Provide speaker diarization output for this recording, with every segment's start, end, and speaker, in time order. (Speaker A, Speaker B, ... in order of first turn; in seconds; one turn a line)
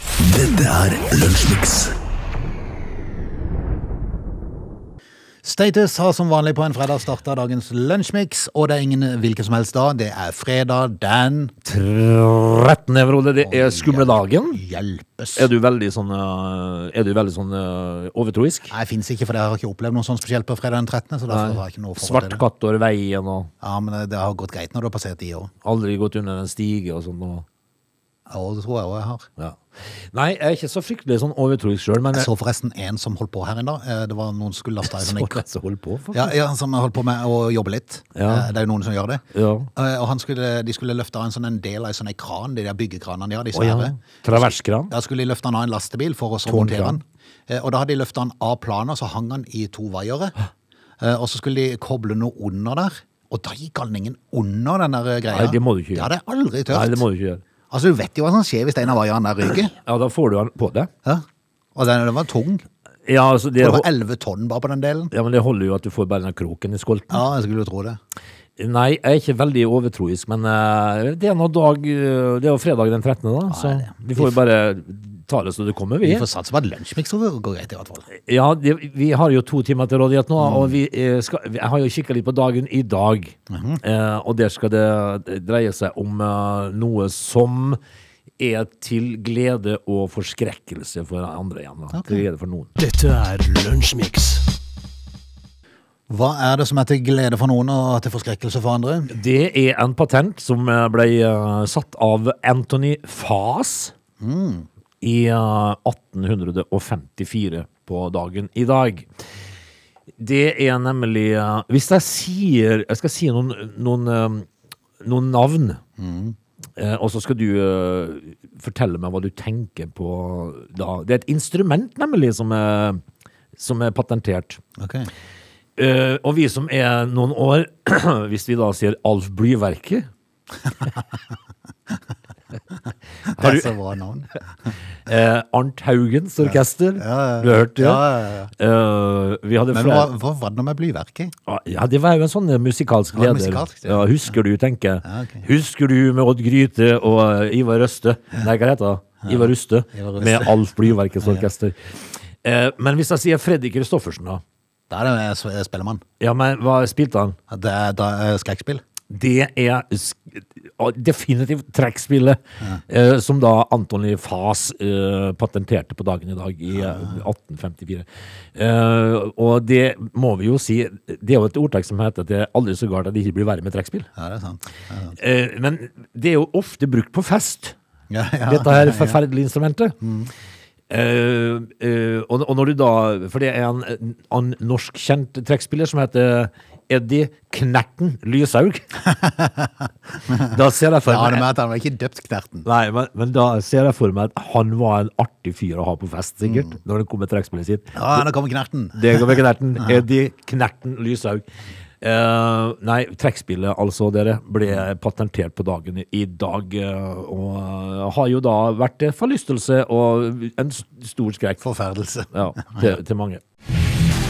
Speaker A: 0.2-1.9
Speaker B: 5.4-11.6
Speaker C: 11.7-14.6
Speaker B: 13.4-15.5
Speaker C: 15.4-18.7
Speaker B: 18.7-22.4
Speaker C: 21.3-23.5
Speaker B: 23.6-25.5
Speaker C: 25.6-27.5
Speaker B: 28.3-29.3
Speaker C: 29.4-32.3
Speaker B: 32.1-35.4
Speaker C: 34.9-36.4
Speaker B: 36.1-39.2
Speaker C: 38.1-38.5
Speaker C: 39.3-39.7
Speaker B: 39.8-50.4
Speaker C: 43.5-44.9
Speaker C: 46.5-47.0
Speaker B: 51.0-57.0
Speaker C: 55.3-56.1
Speaker C: 56.7-57.4
Speaker B: 57.7-59.8
Speaker C: 59.8-60.9
Speaker B: 61.0-62.6
Speaker C: 63.1-63.9
Speaker B: 63.6-65.1
Speaker C: 65.1-67.2
Speaker B: 67.1-68.0
Speaker C: 68.6-76.3
Speaker B: 73.5-74.4
Speaker B: 76.0-78.1
Speaker C: 78.1-87.8
Speaker B: 80.4-80.8
Speaker B: 83.5-83.8
Speaker C: 88.4-92.7
Speaker B: 91.9-92.2
Speaker A: 92.8-94.5
Speaker B: 96.1-99.1
Speaker C: 99.1-103.9
Speaker B: 104.2-104.7
Speaker C: 105.0-109.1
Speaker C: 110.2-114.5
Speaker C: 115.0-115.8
Speaker B: 116.0-116.4
Speaker C: 116.8-123.0
Speaker C: 123.6-124.6
Speaker B: 124.8-125.1
Speaker C: 125.8-130.1
Speaker B: 133.3-134.7
Speaker C: 133.4-133.7
Speaker C: 135.1-138.1
Speaker B: 136.4-138.5
Speaker C: 138.6-140.1
Speaker B: 139.7-141.3
Speaker C: 141.5-154.4
Speaker B: 143.1-144.3
Speaker B: 145.1-145.5
Speaker B: 149.2-150.6
Speaker B: 151.2-151.5
Speaker B: 154.9-156.0
Speaker C: 156.2-157.4
Speaker B: 157.5-158.8
Speaker C: 159.1-174.1
Speaker B: 166.7-167.2
Speaker B: 174.2-175.2
Speaker C: 175.2-177.8
Speaker B: 178.1-179.2
Speaker C: 178.5-180.0
Speaker B: 180.0-180.3
Speaker C: 180.9-189.0
Speaker B: 189.1-192.7
Speaker C: 190.4-191.5
Speaker C: 192.7-198.3
Speaker B: 196.4-196.8
Speaker B: 197.9-200.0
Speaker C: 198.9-201.4
Speaker C: 202.0-211.6
Speaker B: 211.6-212.9
Speaker C: 212.3-213.4